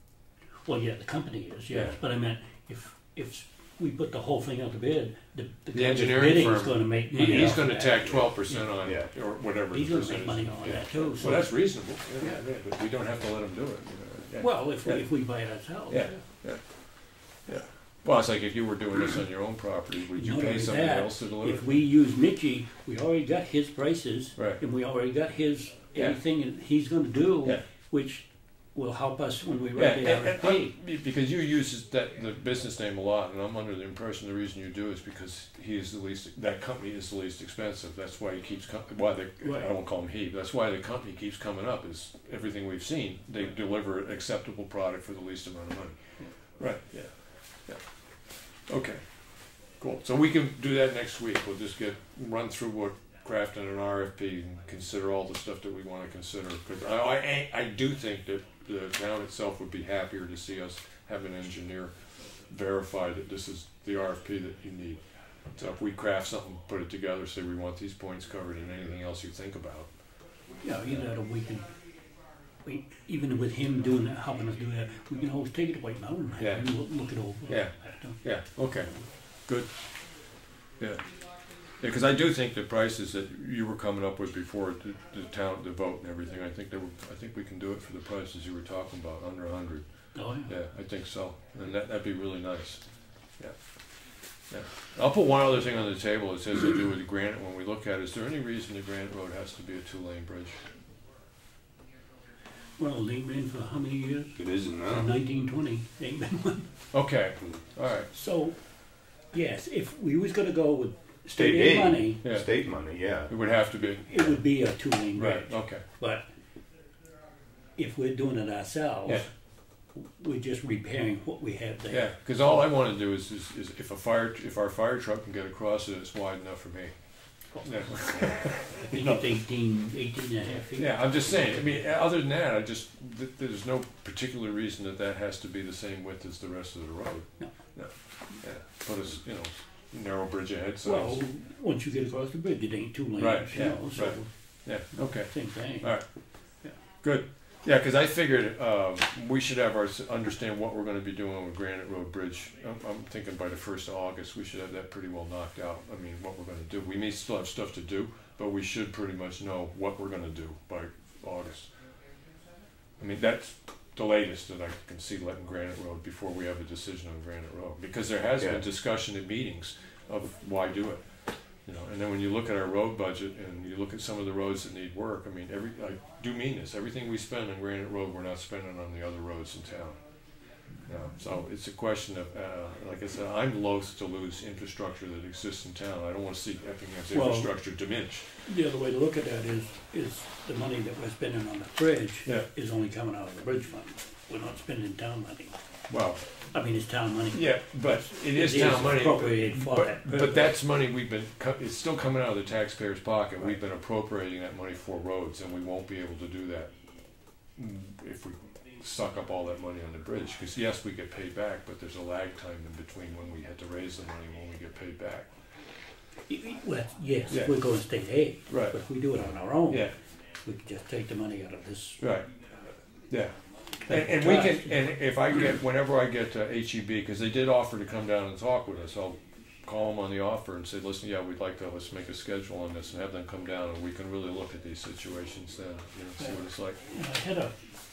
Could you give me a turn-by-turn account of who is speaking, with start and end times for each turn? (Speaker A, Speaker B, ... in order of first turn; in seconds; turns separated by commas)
Speaker A: 0.7-8.7, Speaker B: 1.7-2.0, Speaker B: 5.7-15.1, Speaker C: 7.3-7.7, Speaker C: 8.8-9.1, Speaker A: 9.7-12.4, Speaker A: 14.3-16.2, Speaker B: 15.9-21.9, Speaker A: 20.1-30.8, Speaker B: 24.4-24.6, Speaker B: 29.8-46.0, Speaker A: 39.4-39.7, Speaker B: 46.6-47.1, Speaker B: 48.7-49.0, Speaker B: 49.8-61.9, Speaker B: 62.5-65.0, Speaker B: 65.5-69.9, Speaker A: 70.6-71.7, Speaker A: 72.7-78.2, Speaker B: 76.4-76.7, Speaker B: 77.5-79.8, Speaker B: 80.8-81.1, Speaker B: 81.8-92.8, Speaker A: 90.1-90.5, Speaker B: 93.4-100.6, Speaker A: 102.7-106.7, Speaker C: 104.4-105.2, Speaker B: 106.9-108.1, Speaker A: 108.1-108.6, Speaker A: 109.2-112.3, Speaker C: 111.3-113.4, Speaker B: 112.1-112.5, Speaker B: 113.3-114.4, Speaker A: 114.1-116.3, Speaker B: 115.1-115.8, Speaker A: 117.8-119.3, Speaker A: 119.9-122.1, Speaker B: 121.9-129.2, Speaker A: 127.5-131.8, Speaker B: 130.8-141.3, Speaker A: 140.8-146.0, Speaker B: 143.2-146.1, Speaker B: 147.0-161.7, Speaker B: 163.0-180.0, Speaker B: 180.9-188.3, Speaker A: 187.1-187.5, Speaker A: 188.4-195.6, Speaker B: 195.9-196.2, Speaker A: 196.4-200.6, Speaker B: 197.3-206.7, Speaker B: 207.6-215.3, Speaker A: 216.3-219.9, Speaker B: 217.3-217.6, Speaker B: 218.5-218.8, Speaker B: 219.7-219.9, Speaker A: 220.4-222.1, Speaker B: 222.0-222.4, Speaker B: 223.1-236.8, Speaker A: 223.9-224.8, Speaker A: 236.2-237.6